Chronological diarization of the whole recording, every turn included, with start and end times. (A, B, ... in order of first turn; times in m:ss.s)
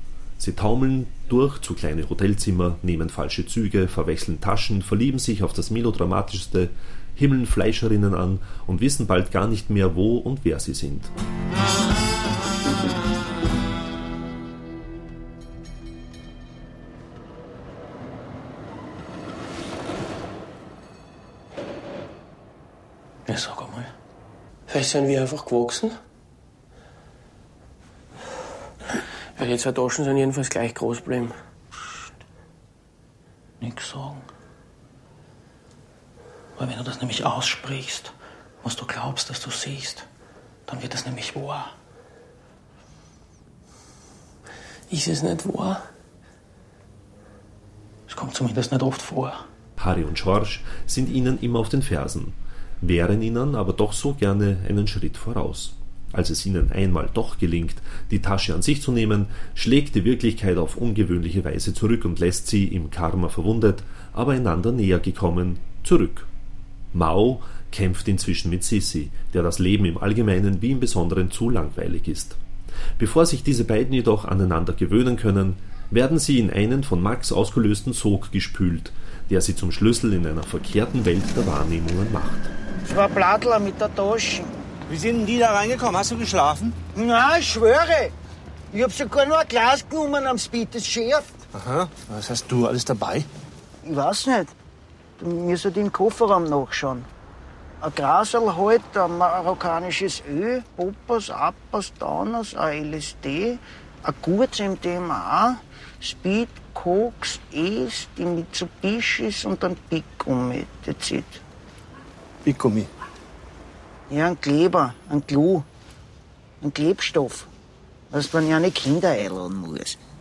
0:00.4-0:11.1 A
0:23.3-0:23.9 B
0:24.7-0:26.0 C
0:29.4-0:31.4 C
0:33.6-0:34.3 B
0:36.6-0:40.1 B
0:40.7-0:41.7 B
0:44.9-0:45.8 C
0:48.1-0:49.4 B
0:49.8-1:06.3 A
1:06.9-1:12.4 A
1:13.0-1:22.5 A
1:22.8-1:24.5 D
1:24.9-1:26.8 E
1:26.9-1:28.1 D
1:28.7-1:31.4 D
1:31.6-1:33.2 E
1:33.8-1:34.5 D
1:35.2-1:37.1 D
1:37.8-1:51.4 D
1:52.5-1:52.9 E
1:54.1-1:55.7 D
1:56.6-1:57.5 D
1:58.1-2:00.0 D